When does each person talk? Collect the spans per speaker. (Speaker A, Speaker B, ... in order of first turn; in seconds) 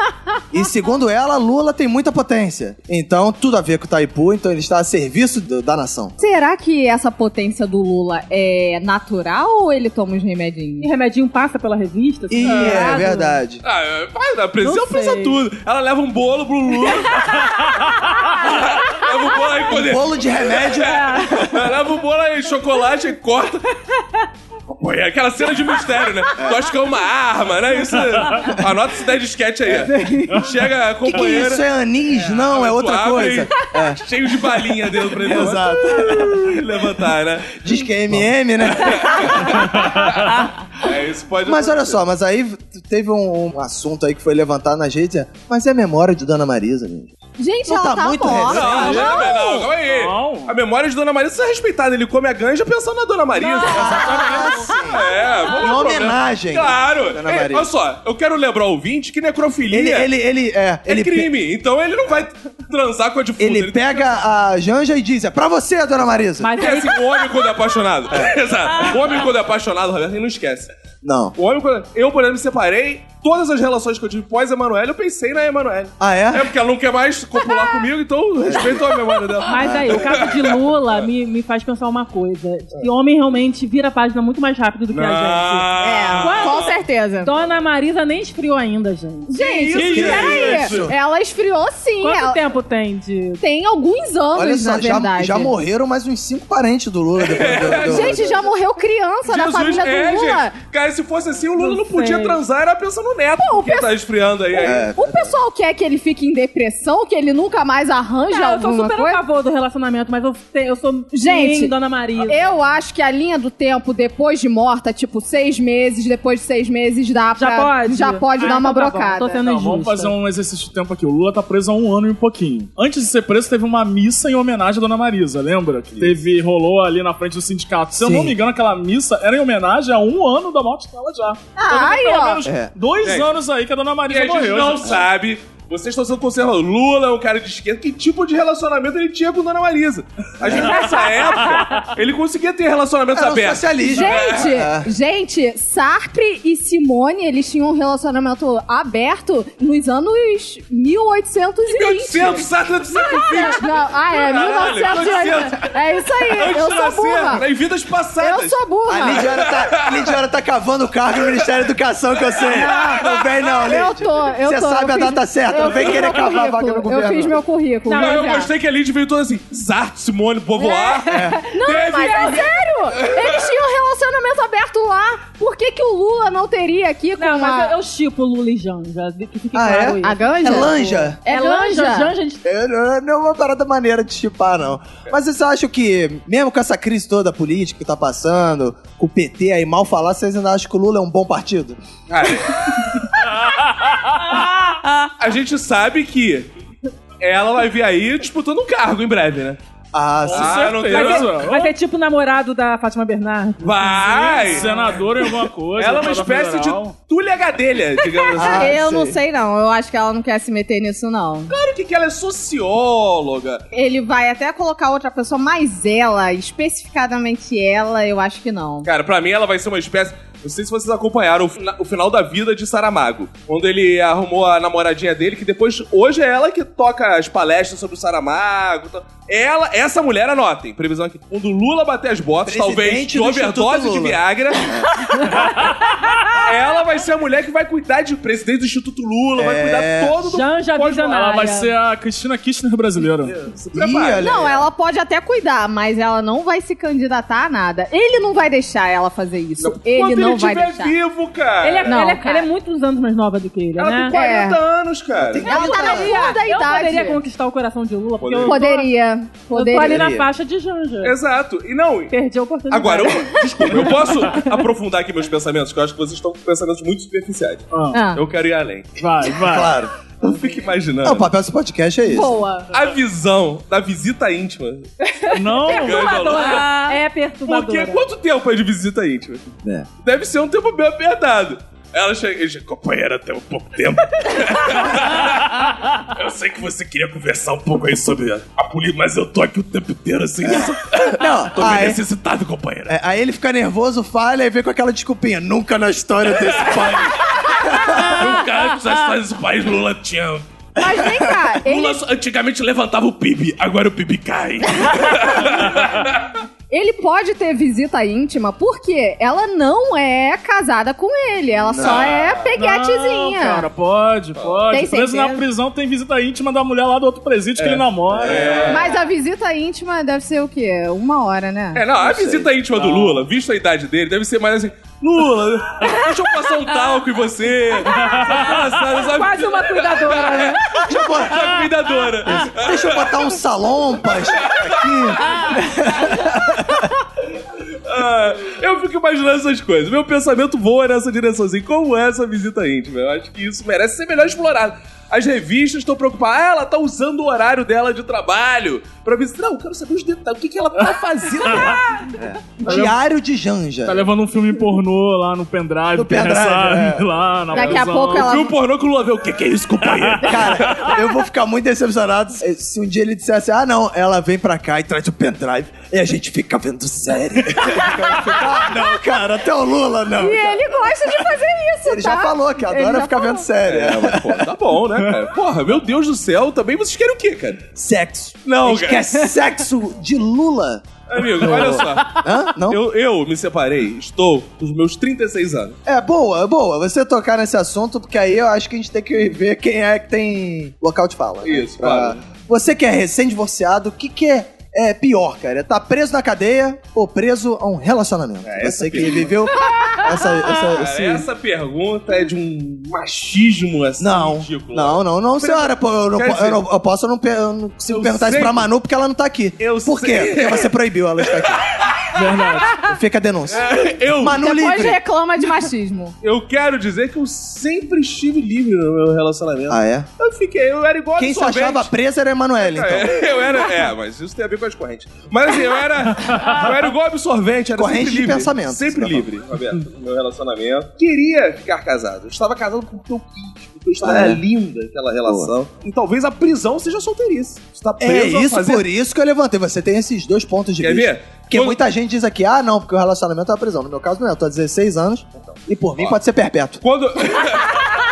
Speaker A: 0.5-6.2, 12.3-13.6, 19.7-21.3, 26.4-26.7, 31.0-34.0, 35.1-36.6, 37.6-39.8, 41.4-47.1, 47.6-49.3, 53.6-57.7, 59.7-61.3, 63.4-66.5, 71.0-71.3, 76.0-76.5, 78.4-79.0, 79.6-80.0, 89.7-90.9, 94.3-98.3, 104.6-105.3, 128.0-128.3, 132.4-132.7, 140.4-140.7, 143.1-144.9, 158.9-167.4, 171.1-171.4, 179.5-181.2, 182.4-191.8, 199.9-200.7, 208.3-209.2, 232.4-234.9, 239.3-240.1, 243.7-244.7, 255.2-256.4, 259.8-260.3, 269.4-270.4, 271.0-272.4, 290.4-292.0, 292.9-298.4, 300.8-301.5, 311.7-312.2, 318.1-318.7, 322.0-322.6, 330.8-331.5, 332.3-336.9, 352.1-354.1, 355.9-357.1, 360.2-370.7, 371.8-374.4, 377.8-382.8, 385.9-401.3, 404.0-411.6, 412.8-415.0, 419.7-420.1, 421.2-423.3, 427.7-429.3, 434.0-434.4, 435.2-435.5, 438.0-446.8
Speaker B: 6.2-10.9, 29.7-30.4, 47.4-49.3, 85.8-87.3, 89.3-92.4, 93.4-95.5, 97.8-100.5, 103.4-103.9, 104.5-109.2, 111.1-119.5, 131.6-132.5, 143.8-157.4, 158.2-159.3, 162.5-163.0, 163.6-168.5, 170.8-177.8, 180.0-182.1, 208.3-211.5, 213.7-218.9, 244.2-250.9, 251.8-252.5, 254.1-254.6, 255.3-257.2, 258.4-260.1, 267.9-268.2, 272.1-272.7, 300.8-302.0, 306.7-313.7, 314.7-315.4, 318.7-321.9, 357.5-358.5, 367.7-368.8, 370.2-373.5, 399.6-400.2, 414.2-416.1
Speaker C: 10.8-13.4, 14.6-15.4, 21.2-21.5, 66.4-67.3, 79.5-86.7, 87.2-89.3, 92.0-93.4, 101.6-102.4, 108.3-112.4, 117.4-120.1, 140.5-141.8, 167.8-168.5, 177.2-182.4, 200.9-204.9, 240.3-241.7, 251.6-254.1, 255.5-258.9, 259.5-261.1, 262.1-264.4, 275.6-278.0, 329.1-330.6
Speaker D: 13.6-17.8, 18.3-23.7, 24.7-37.6, 38.7-42.0, 48.5-54.2, 54.9-60.1, 60.9-64.2, 66.6-70.7, 71.3-81.0, 84.9-86.8, 89.5-90.9, 97.2-98.4, 99.2-104.9, 133.0-133.3, 134.1-144.6, 151.6-160.0, 162.4-163.7, 167.9-173.5, 192.1-193.0, 195.2-196.5, 197.2-199.6, 200.3-201.3, 203.6-205.0, 205.8-208.7, 211.5-213.6, 218.8-234.8, 236.4-241.1, 243.2-244.4, 249.6-252.0, 253.8-255.5, 258.2-258.6, 261.0-262.1, 262.7-268.9, 270.2-271.3, 272.7-274.9, 275.7-276.7, 277.4-279.5, 280.0-292.9, 296.4-300.4, 301.6-306.3, 311.7-312.5, 314.4-314.7, 317.6-319.0, 321.7-333.3, 334.4-336.2, 337.9-351.8, 358.1-360.9, 373.6-377.6, 378.4-379.2, 381.1-385.8, 391.4-392.2, 398.4-399.4, 400.5-406.6, 407.9-408.6, 409.6-412.1, 413.5-414.4, 416.2-421.9, 422.6-438.9, 440.8-441.8, 445.5-446.2, 446.8-447.9
Speaker E: 39.7-40.4, 48.5-50.5, 53.9-54.7, 89.7-90.8, 119.4-135.0, 193.4-194.4, 200.2-201.7, 204.2-206.9, 241.0-243.5, 267.7-268.0, 269.0-269.8, 275.3-276.6, 312.5-318.9, 322.7-323.2, 327.9-328.3, 351.5-351.8, 352.6-352.9, 353.9-358.4, 359.9-360.7, 412.1-412.8